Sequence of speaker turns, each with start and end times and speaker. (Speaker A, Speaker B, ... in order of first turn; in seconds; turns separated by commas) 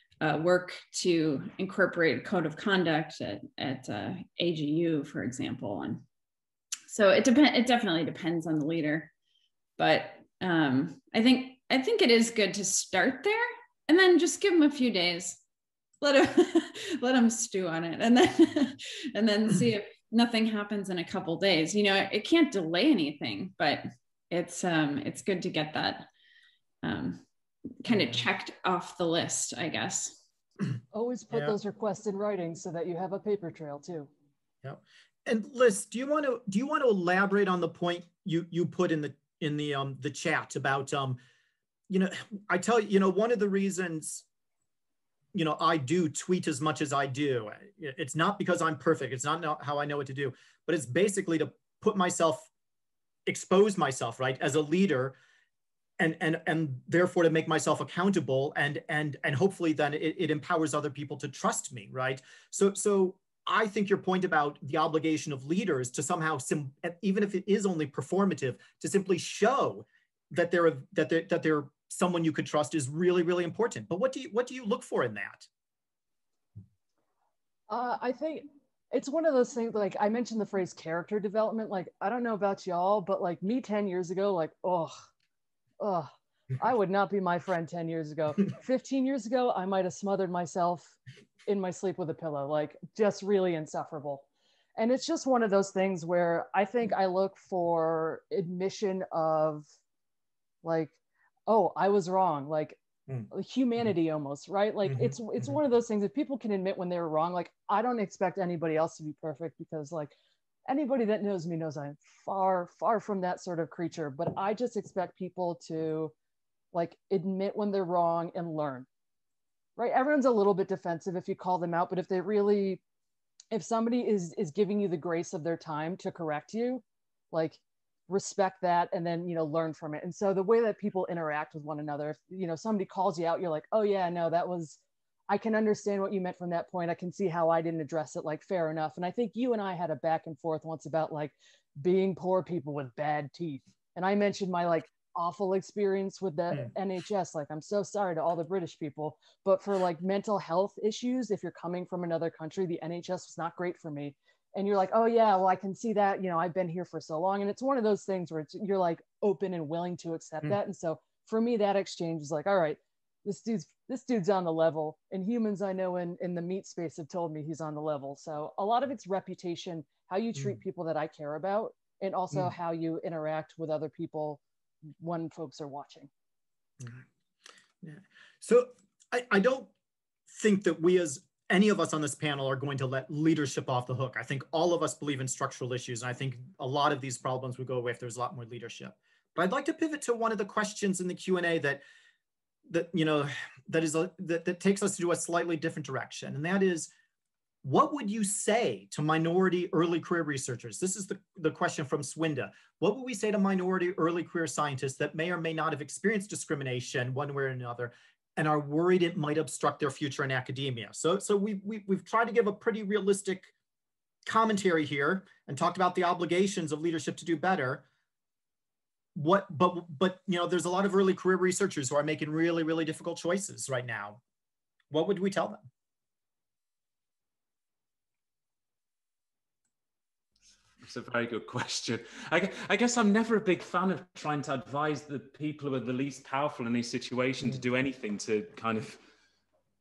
Speaker A: 0.2-6.0, Speaker A: 6.9-9.1, Speaker A: 9.8-15.4, Speaker A: 16.0-26.1, Speaker A: 26.8-27.2, Speaker A: 27.8-30.2, Speaker B: 27.9-28.2, Speaker C: 30.9-34.1, Speaker B: 34.6-41.2, Speaker B: 41.9-44.2, Speaker B: 45.3-52.5, Speaker B: 53.3-55.2, Speaker B: 56.0-75.5, Speaker C: 77.7-85.0, Speaker C: 85.8-94.2, Speaker C: 94.8-99.7, Speaker C: 100.6-101.0, Speaker C: 101.5-102.8, Speaker C: 103.3-110.1, Speaker B: 104.9-105.5, Speaker C: 110.7-116.1, Speaker C: 116.7-118.9, Speaker C: 119.8-122.8, Speaker C: 123.5-174.4, Speaker C: 175.0-176.1, Speaker B: 177.8-179.7, Speaker B: 180.3-191.8, Speaker B: 192.7-196.9, Speaker B: 197.6-213.5, Speaker B: 214.3-217.8, Speaker B: 219.1-224.2, Speaker B: 224.9-225.7, Speaker D: 230.8-239.0